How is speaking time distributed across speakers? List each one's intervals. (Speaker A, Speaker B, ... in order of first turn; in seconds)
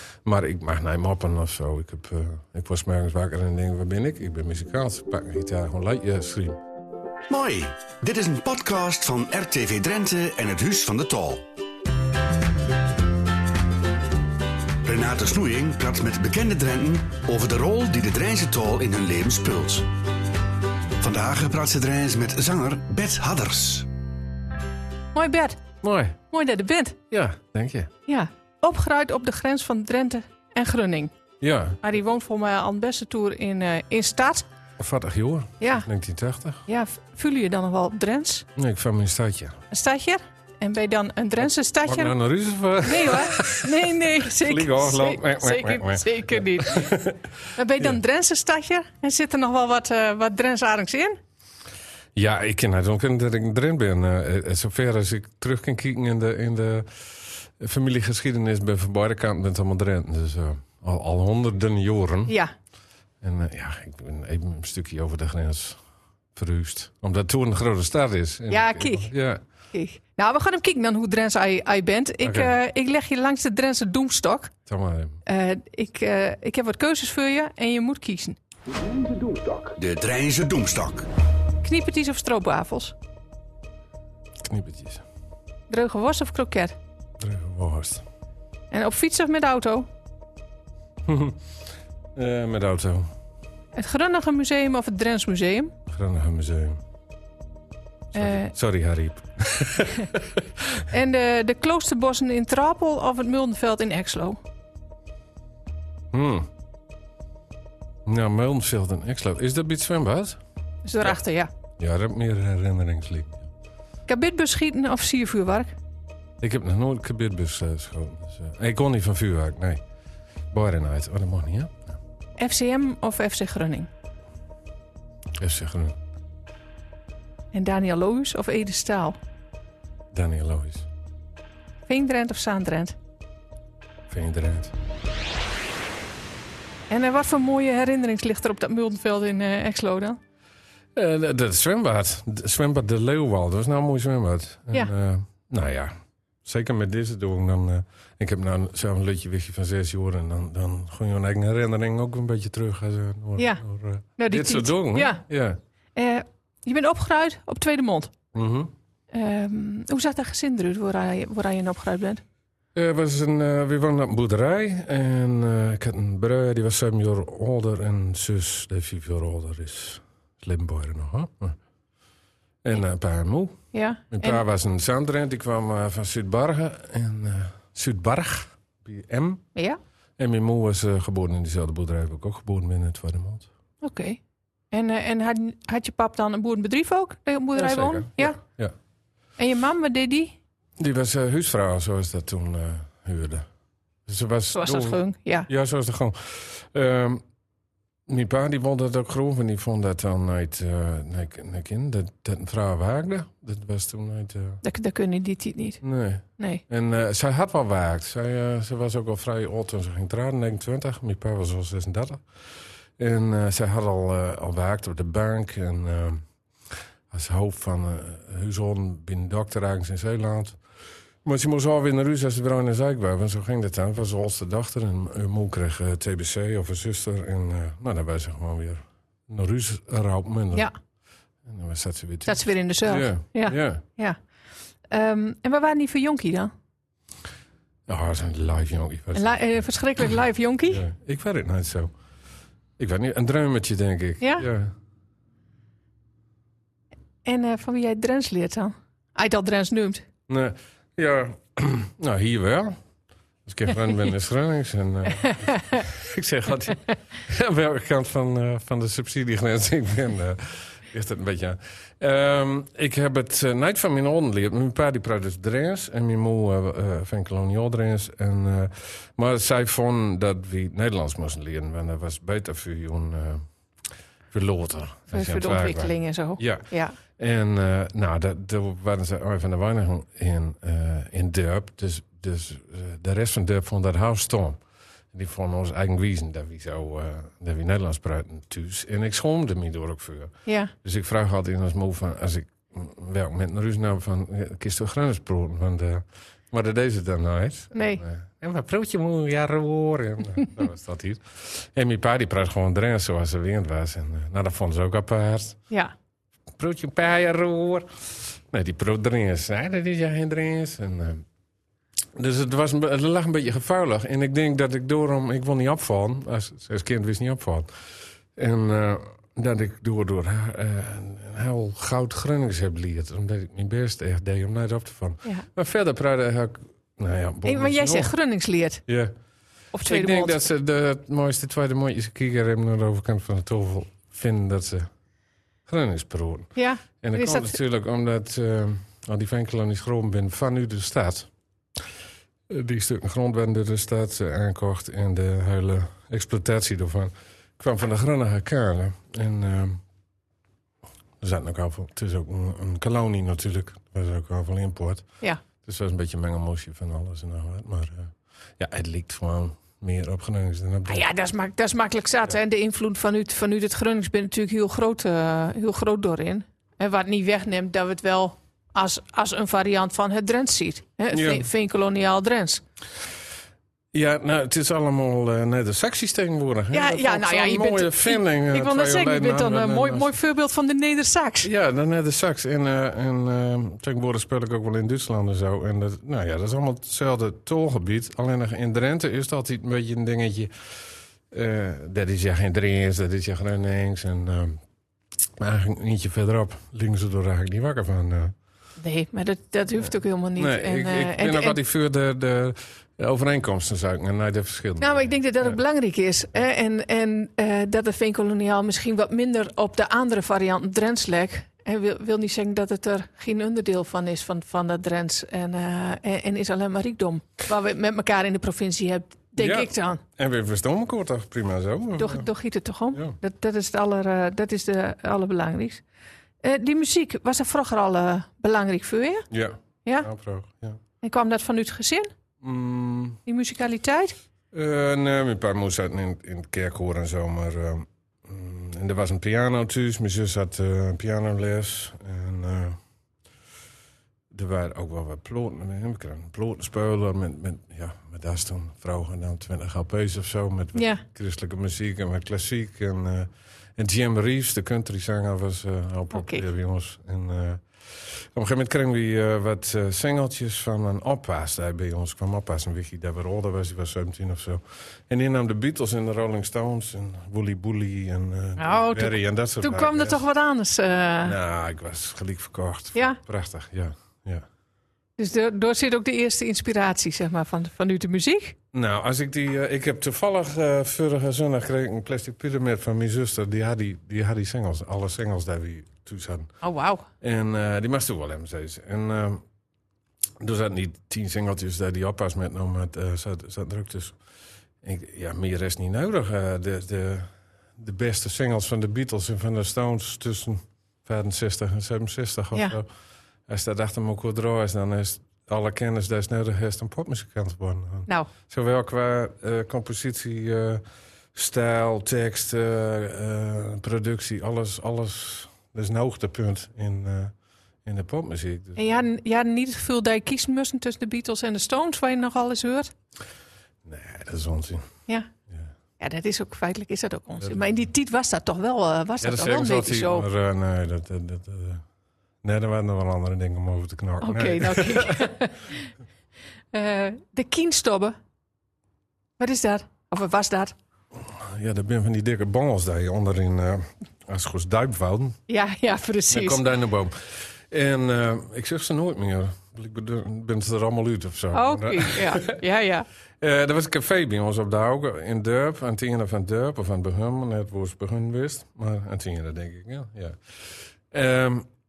Speaker A: 0.2-6.6, 25.8-26.2, 27.1-27.9, 31.4-31.8, 34.8-36.6, 38.6-39.6, 41.4-47.2, 52.2-62.4, 63.2-65.8, 66.3-69.4, 72.2-72.5, 74.7-75.2, 84.4-85.0, 87.2-88.0, 91.1-91.4, 92.2-93.1, 95.9-96.8, 98.1-100.4, 106.1-106.5, 108.1-110.4, 111.8-113.5, 116.4-119.8, 120.5-122.0, 125.4-126.0, 130.1-130.9, 134.1-134.7, 140.9-145.9, 146.4-155.6, 158.3-158.7, 162.8-171.6, 172.6-179.4, 180.2-183.5, 187.6-188.7, 190.8-193.5, 194.1-197.2, 198.1-204.6, 205.8-212.2, 213.0-216.2, 217.1-220.6, 221.2-230.7, 231.5-233.8, 237.9-239.6, 240.7-241.9, 242.8-244.7, 250.3-252.8, 253.5-273.5, 274.3-284.6, 285.1-305.6, 306.6-311.2, 312.1-317.7, 318.4-328.1, 328.9-329.1, 329.8-334.9, 335.7-341.3, 342.5-349.8, 351.2-355.1, 355.6-361.1, 371.1-371.5, 373.9-380.1, 381.4-390.5, 391.3-394.6, 395.4-398.3, 400.4-405.6, 419.4-422.3, 429.3-430.8, 432.4-433.2, 434.5-442.8, 444.3-470.2, 471.2-474.5, 478.7-486.5, 487.2-489.4, 490.4-494.2, 494.8-502.9, 503.5-510.8, 511.3-517.3, 517.9-519.0, 523.9-524.9, 529.2-531.8, 532.4-535.3, 541.2-545.4, 546.3-552.6, 553.4-560.4, 561.1-561.7
Speaker B: 7.3-11.4, 14.8-19.9, 21.0-23.9, 78.7-81.1
Speaker C: 25.1-25.6, 26.3-27.0, 28.1-31.1, 31.8-34.5, 35.6-35.9, 36.7-38.5, 39.7-42.2, 42.8-47.0, 47.6-51.2, 68.5-69.1, 69.7-74.5, 75.3-78.4, 81.6-83.0, 85.7-86.8, 88.7-89.9, 93.8-95.8, 98.2-98.5, 100.9-104.4, 110.8-111.5, 114.1-115.7, 122.4-123.9, 127.5-129.2, 131.9-133.0, 136.9-140.2, 153.4-153.6, 154.2-155.2, 155.9-158.1, 159.1-162.2, 173.7-174.4, 183.8-184.2, 184.7-188.4, 189.4-190.3, 194.5-195.5, 204.6-205.8, 206.4-206.6, 232.3-234.2, 234.9-236.5, 239.2-240.8, 244.2-244.5, 247.2-250.0, 275.1-277.0, 290.5-290.7, 297.7-298.0, 327.5-328.8, 329.7-330.4, 336.6-337.6, 360.9-372.6, 376.7-381.5, 398.8-401.6, 404.8-420.0, 422.0-425.8, 426.4-429.3, 431.0-432.1, 433.3-434.2, 450.8-451.0, 456.1-456.4, 468.6-471.4, 475.2-478.6, 486.6-487.1, 518.8-522.9, 526.0-530.3, 534.2-535.9, 536.7-538.2, 539.4-540.7, 545.5-546.6, 551.5-553.1